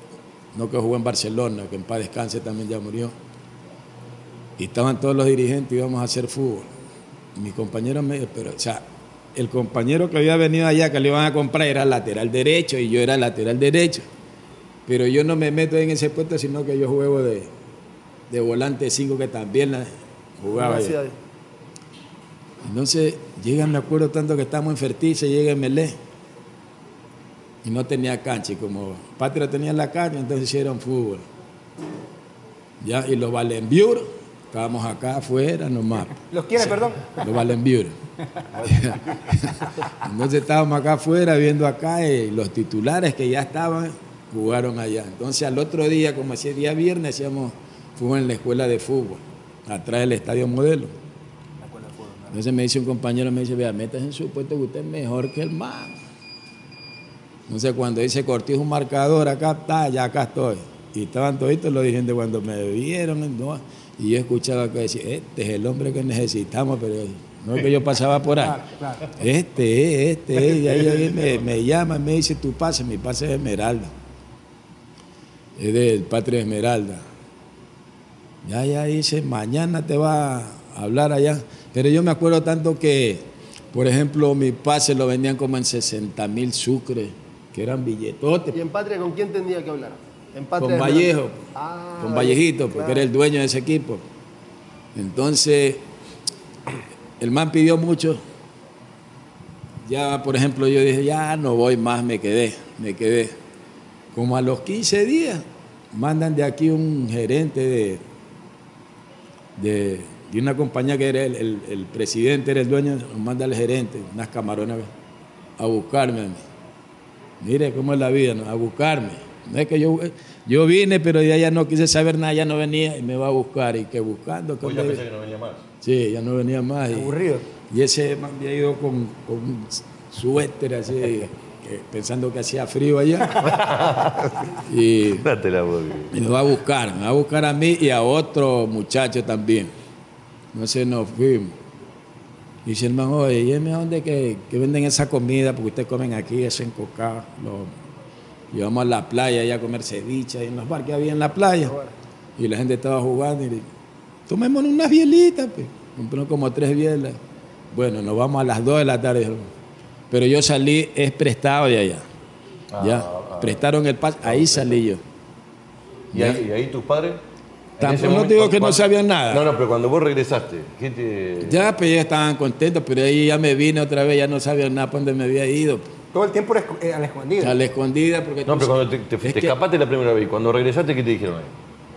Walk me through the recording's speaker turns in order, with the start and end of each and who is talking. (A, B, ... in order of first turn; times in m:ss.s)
0:00.5-0:03.1 A
0:04.6-0:06.7 A
0:07.3-0:08.8 A
0:09.3-0:14.0 A
0:14.8-0:17.5 A
0:18.3-0:21.0 A
0:20.5-0:21.1 B
0:22.6-0:26.0 A
0:27.6-0:31.3 A
0:32.8-0:38.0 A
0:36.3-0:37.2 C
0:38.5-0:39.4 D
0:38.6-0:50.9 A
0:51.6-0:52.4 C
0:52.3-0:56.0 A
0:57.5-1:08.6 A
1:08.4-1:09.1 C
1:09.1-1:13.9 A
1:15.6-1:17.0 A
1:18.4-1:28.6 A
1:28.5-1:33.1 B
1:30.6-1:31.4 A
1:32.0-1:34.0 A
1:34.9-1:35.8 A
1:37.2-1:38.2 A
1:39.8-1:43.4 A
1:44.1-1:48.0 A
1:49.6-1:54.9 A
1:55.6-1:56.4 A
1:57.4-2:05.0 A
2:04.6-2:05.6 D
2:05.8-2:13.6 A
2:06.9-2:07.4 C
2:13.4-2:14.3 D
2:14.6-2:15.3 A
2:15.2-2:16.2 D
2:16.1-2:19.7 A
2:20.5-2:21.5 A
2:22.6-2:27.7 A
2:28.5-2:31.8 A
2:31.6-2:31.9 B
2:32.4-2:33.7 A
2:34.3-2:37.2 A
2:37.7-2:39.5 A
2:40.1-2:42.0 A
2:42.7-2:43.6 D
2:42.8-2:45.0 A
2:44.2-2:44.8 D
2:46.1-2:46.4 A
2:46.1-2:47.2 D
2:47.8-2:51.7 D
2:47.8-2:49.4 A
2:51.4-2:55.9 A
2:56.1-2:57.6 C
2:57.4-2:59.6 A
2:58.4-3:01.5 D